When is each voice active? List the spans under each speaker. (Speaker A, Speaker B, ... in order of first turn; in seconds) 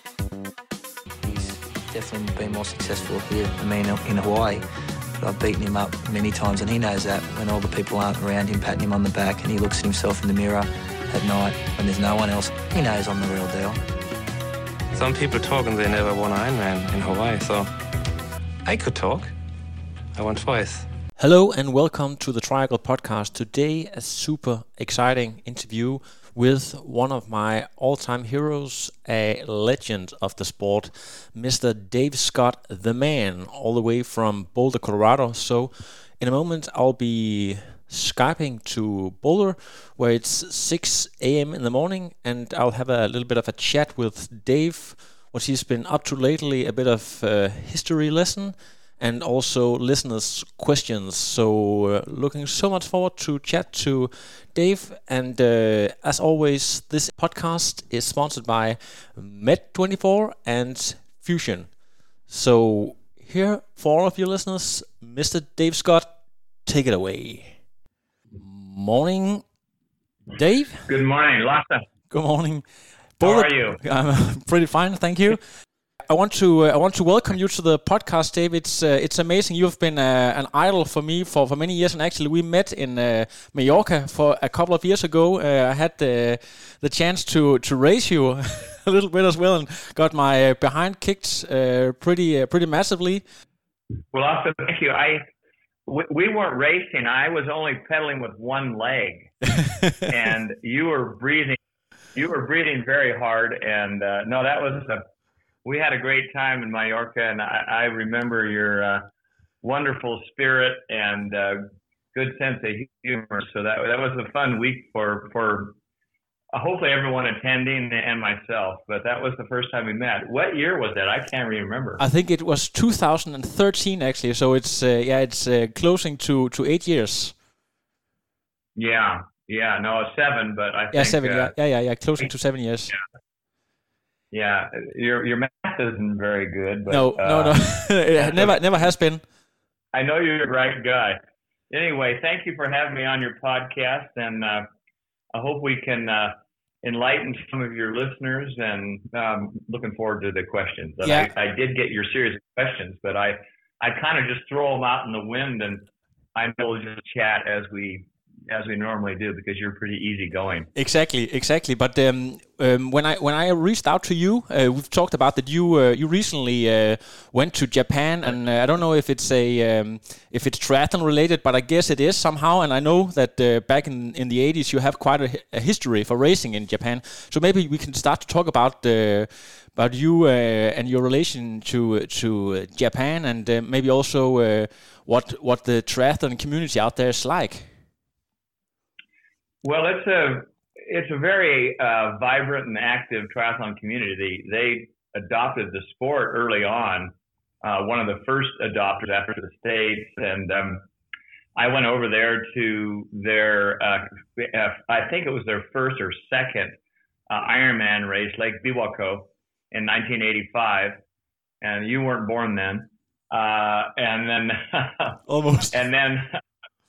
Speaker A: 1.2-4.6, 5.2-13.8
Speaker B: 14.9-17.7, 18.6-19.3, 20.1-20.9
Speaker C: 21.2-61.7, 62.3-67.6, 68.4-69.4, 70.3-70.9, 72.1-75.4, 76.0-93.2, 122.0-127.3, 130.9-133.0, 136.9-139.2, 151.0-151.3, 160.8-187.7, 215.3-215.8
Speaker D: 70.9-71.8, 73.2-73.8, 94.1-95.2, 95.8-99.3, 100.1-101.6, 102.1-105.0, 105.6-109.1, 109.6-115.7, 116.5-122.0, 128.8-131.5, 134.3-138.6, 139.9-141.2, 141.7-144.7, 145.3-160.7, 189.6-200.9, 201.6-206.8, 207.3-211.0, 211.6-215.2, 215.7-216.4